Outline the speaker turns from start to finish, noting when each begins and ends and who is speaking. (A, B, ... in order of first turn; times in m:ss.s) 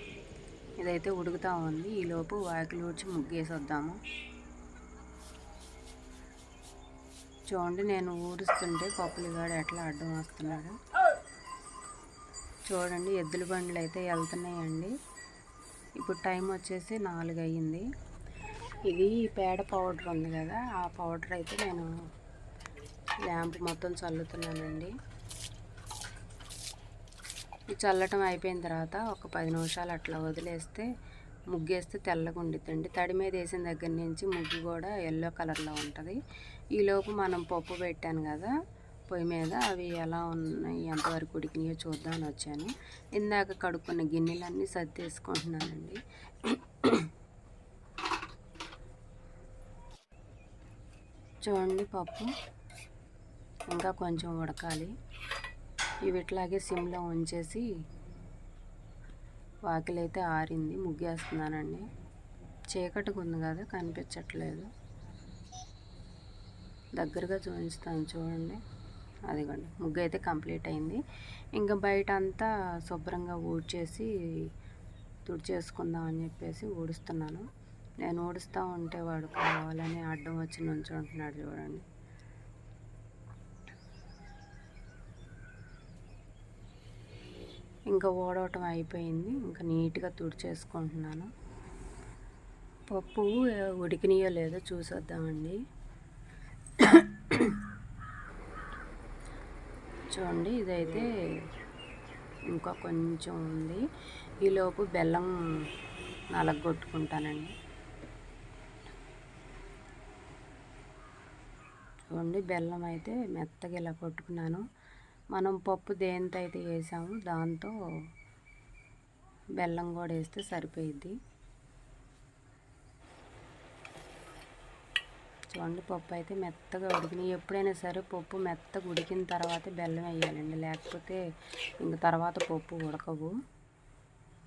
0:00.8-0:04.0 A
0:07.5-0:10.8 A
0:12.7-0:14.9 A
0:16.0-0:17.9 A
0:18.9-0:21.9 A
0:23.3-0:24.9 A
0:27.7-0:30.9 A
0:31.5-0:36.2 A
0:36.8-0:38.5 A
0:39.1-0:47.1 A
0:51.4-0:52.3 A
0:53.7-0:54.9 A
0:56.0-0:57.6 A
0:59.6-1:01.9 A
1:02.7-1:04.7 A
1:07.0-1:08.6 A
1:09.3-1:11.0 A
1:11.6-1:14.1 A
1:15.3-1:17.4 A
1:18.0-1:21.8 A
1:27.9-1:31.3 A
1:32.9-1:35.6 A
1:36.8-1:37.6 A
1:40.1-1:41.1 A
1:42.5-1:43.8 A
1:44.4-1:45.3 A
1:46.3-1:47.5 A
1:52.1-1:54.6 A
1:55.3-1:57.7 A
1:59.6-2:01.2 A
2:05.5-2:11.2 A
2:11.8-2:13.3 A